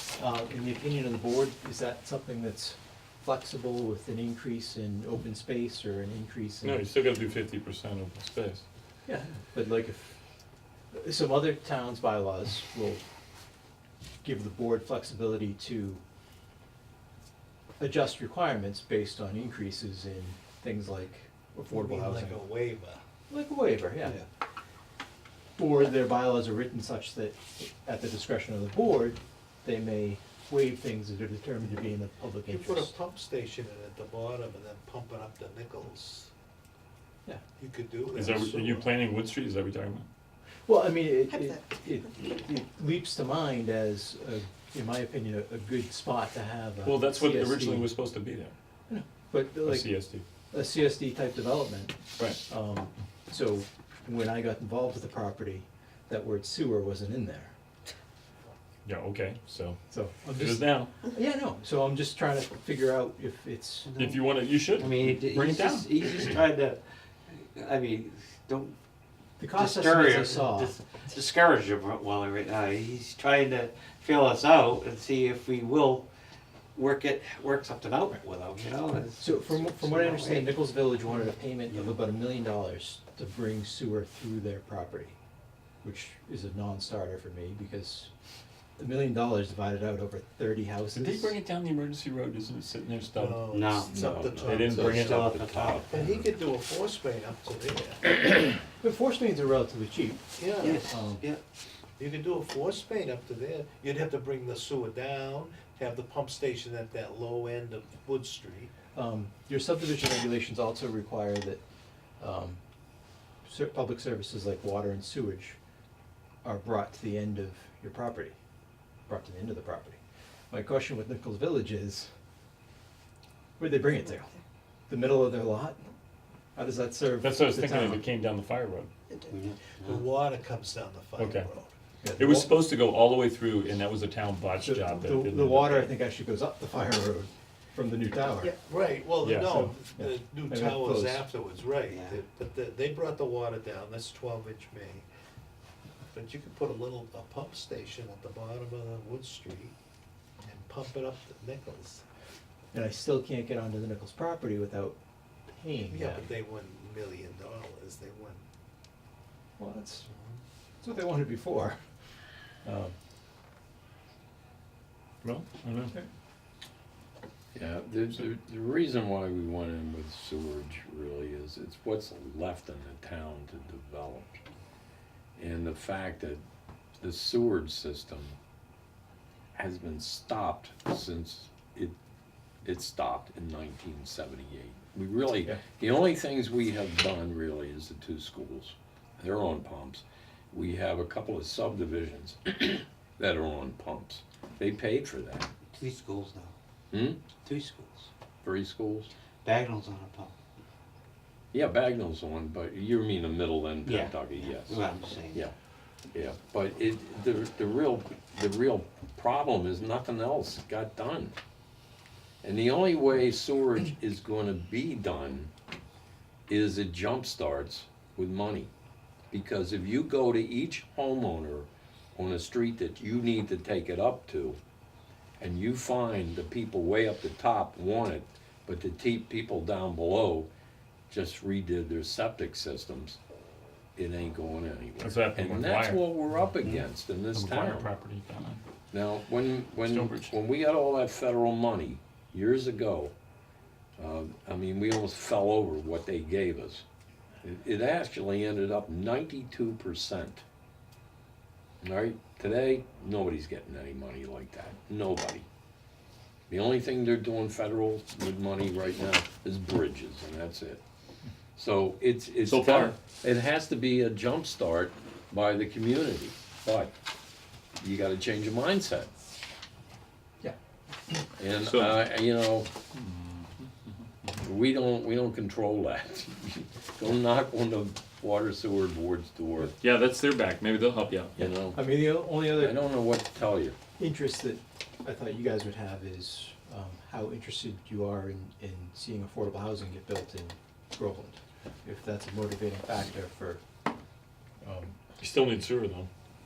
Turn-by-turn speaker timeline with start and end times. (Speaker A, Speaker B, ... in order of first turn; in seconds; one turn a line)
Speaker A: 0.2-6.9
Speaker B: 6.6-8.6
Speaker A: 9.1-10.2
Speaker A: 10.9-13.0
Speaker A: 14.2-16.0
Speaker A: 17.8-22.4
Speaker C: 21.7-23.0
Speaker A: 23.3-24.2
Speaker A: 25.6-32.9
Speaker C: 32.5-36.3
Speaker C: 37.6-38.9
Speaker B: 38.1-40.1
Speaker A: 40.7-47.9
Speaker B: 46.8-48.5
Speaker A: 48.9-50.0
Speaker B: 49.6-50.2
Speaker A: 50.5-57.5
Speaker B: 58.9-59.8
Speaker A: 59.9-63.9
Speaker B: 60.3-60.9
Speaker D: 63.9-68.8
Speaker B: 64.0-66.2
Speaker A: 69.4-70.8
Speaker D: 69.5-76.1
Speaker D: 76.8-80.7
Speaker A: 79.2-85.2
Speaker D: 81.7-82.0
Speaker A: 85.8-88.1
Speaker A: 88.8-91.4
Speaker B: 90.9-93.5
Speaker C: 93.1-98.1
Speaker D: 93.5-96.0
Speaker E: 93.9-95.8
Speaker B: 94.3-95.9
Speaker A: 98.7-101.2
Speaker C: 100.4-100.8
Speaker D: 100.7-101.4
Speaker C: 102.0-108.7
Speaker A: 108.9-111.6
Speaker A: 112.2-112.6
Speaker A: 113.5-115.6
Speaker A: 116.4-118.4
Speaker A: 119.1-120.0
Speaker A: 120.5-122.1
Speaker A: 123.6-124.3
Speaker A: 124.9-125.9
Speaker A: 126.5-128.0
Speaker B: 127.2-128.9
Speaker D: 129.3-130.0
Speaker C: 129.8-131.7
Speaker B: 131.2-131.5
Speaker A: 132.0-132.6
Speaker B: 132.2-135.9
Speaker A: 134.6-138.5
Speaker C: 138.6-145.1
Speaker B: 139.2-139.8
Speaker A: 140.0-141.2
Speaker D: 141.9-142.2
Speaker C: 146.1-149.8
Speaker C: 150.4-152.0
Speaker A: 152.7-155.0
Speaker A: 155.5-156.3
Speaker C: 155.9-158.4
Speaker A: 159.6-160.1
Speaker C: 160.1-160.4
Speaker A: 160.8-161.8
Speaker A: 162.6-162.9
Speaker B: 165.2-165.9
Speaker E: 167.6-174.4
Speaker E: 175.4-176.4
Speaker E: 177.0-178.4
Speaker E: 179.6-181.9
Speaker E: 182.6-195.5
Speaker D: 195.7-196.5
Speaker E: 196.9-197.2
Speaker D: 197.4-198.1
Speaker E: 198.4-199.1
Speaker D: 199.4-200.3
Speaker E: 201.5-205.5
Speaker D: 203.9-205.4
Speaker E: 206.1-211.4
Speaker E: 212.4-215.5
Speaker E: 216.5-218.7
Speaker E: 219.3-224.6
Speaker E: 225.4-230.5
Speaker E: 231.1-233.2
Speaker E: 234.0-237.9
Speaker B: 235.0-236.5
Speaker B: 237.3-238.6
Speaker E: 238.9-243.1
Speaker B: 239.8-240.4
Speaker E: 244.0-246.8
Speaker E: 247.4-250.4
Speaker E: 251.8-255.5
Speaker E: 256.5-260.8
Speaker E: 261.6-266.9
Speaker B: 262.4-262.9
Speaker E: 267.8-269.1
Speaker E: 271.4-272.7
Speaker B: 271.6-272.0
Speaker B: 272.9-273.7
Speaker E: 274.4-279.8
Speaker B: 279.7-281.4
Speaker E: 281.4-281.8
Speaker A: 281.7-282.8
Speaker E: 282.5-283.8
Speaker A: 284.0-293.6
Speaker A: 294.6-294.9
Speaker B: 295.2-296.1